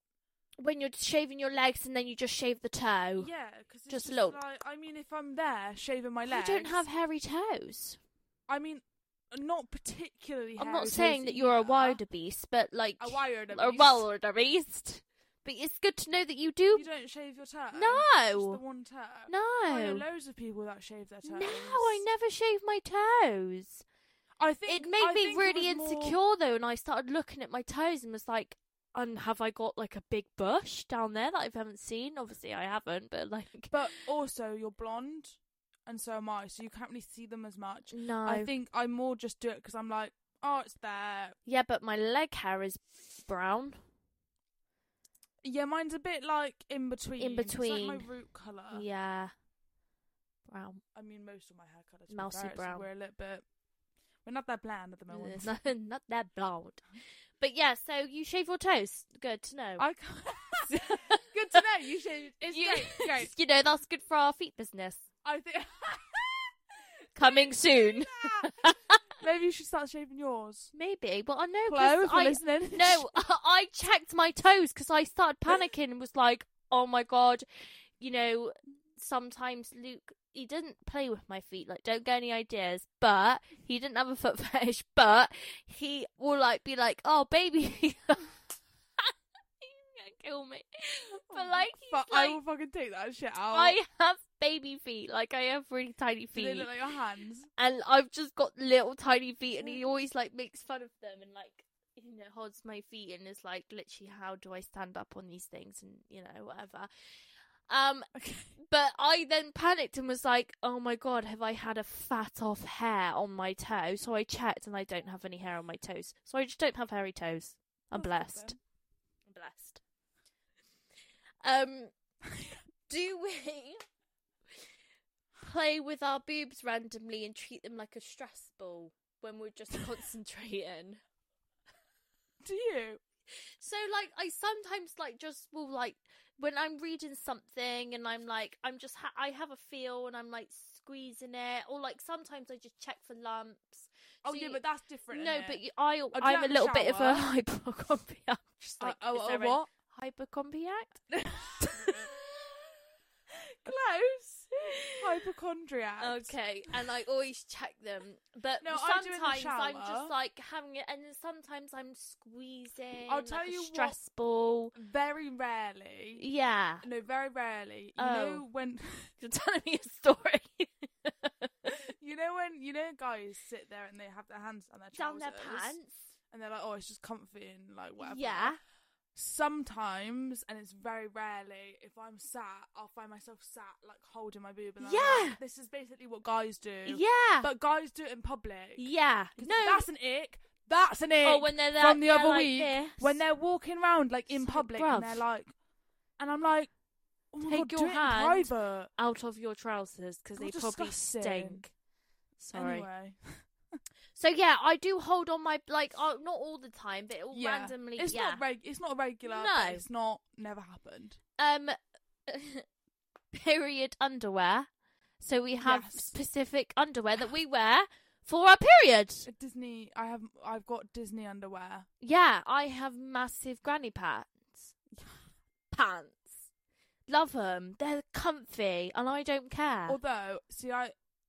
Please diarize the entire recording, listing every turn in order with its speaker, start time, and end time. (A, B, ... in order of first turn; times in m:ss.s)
0:00.6-0:03.3 A
0:03.2-0:06.8 B
0:03.9-0:04.4 A
0:06.2-0:08.0 A
0:08.5-0:12.0 B
0:10.6-0:16.9 A
0:13.0-0:14.1 B
0:16.7-0:22.0 B
0:17.7-0:18.6 A
0:19.3-0:20.0 A
0:21.2-0:23.8 A
0:24.4-0:26.2 B
0:24.7-0:33.8 A
0:33.7-0:41.4 B
0:37.9-0:38.5 A
0:41.4-0:43.8 A
0:45.4-0:48.8 B
0:47.2-0:48.0 A
0:48.7-0:49.3 A
0:50.5-0:50.8 A
0:50.9-0:53.4 B
0:52.1-0:52.9 A
0:54.2-0:55.5 B
0:55.1-0:56.8 A
0:57.4-0:59.8 A
0:59.8-1:03.3 B
1:00.6-1:01.2 A
1:02.5-1:05.0 A
1:05.2-1:06.5 B
1:07.2-1:09.0 A
1:07.2-1:10.7 B
1:10.7-1:17.4 A
1:11.6-1:13.1 B
1:18.0-1:28.3 A
1:29.0-1:32.4 A
1:31.3-1:33.8 B
1:33.5-1:36.7 A
1:36.3-1:37.5 B
1:37.6-1:46.9 A
1:39.6-1:39.8 B
1:47.7-1:58.6 A
1:48.1-1:48.5 B
1:57.9-1:58.6 B
1:59.3-1:59.8 A
2:01.4-2:01.9 A
2:02.3-2:02.6 B
2:02.9-2:03.8 A
2:05.4-2:11.0 A
2:12.4-2:13.0 B
2:13.6-2:31.0 A
2:24.2-2:25.6 B
2:26.1-2:27.3 B
2:28.8-2:29.7 B
2:31.1-2:32.6 B
2:33.3-2:36.3 B
2:34.6-2:35.0 A
2:36.0-2:44.7 A
2:38.6-2:40.1 B
2:43.1-2:44.0 B
2:44.7-2:46.2 B
2:46.2-2:46.8 A
2:46.8-2:49.1 B
2:48.0-2:48.4 A
2:49.2-2:51.7 A
2:51.9-2:55.7 B
2:54.9-2:55.9 A
2:56.3-2:58.6 B
2:58.0-2:58.6 A
2:59.1-3:15.5 B
3:04.8-3:05.4 A
3:06.8-3:07.5 A
3:08.8-3:09.9 A
3:11.2-3:13.2 A
3:14.3-3:15.2 A
3:16.2-3:16.7 B
3:17.3-3:18.9 B
3:17.5-3:21.7 A
3:20.4-3:21.6 B
3:22.4-3:22.9 A
3:22.5-3:23.8 B
3:24.1-3:28.4 A
3:27.3-3:31.2 B
3:29.2-3:29.8 A
3:31.4-3:31.8 A
3:32.3-3:32.6 A
3:33.3-3:34.7 A
3:35.2-3:39.3 A
3:35.6-3:36.2 B
3:39.2-3:41.8 B
3:42.0-3:44.7 A
3:44.9-3:45.2 B
3:45.7-3:46.4 A
3:47.1-3:50.0 A
3:49.9-3:50.9 B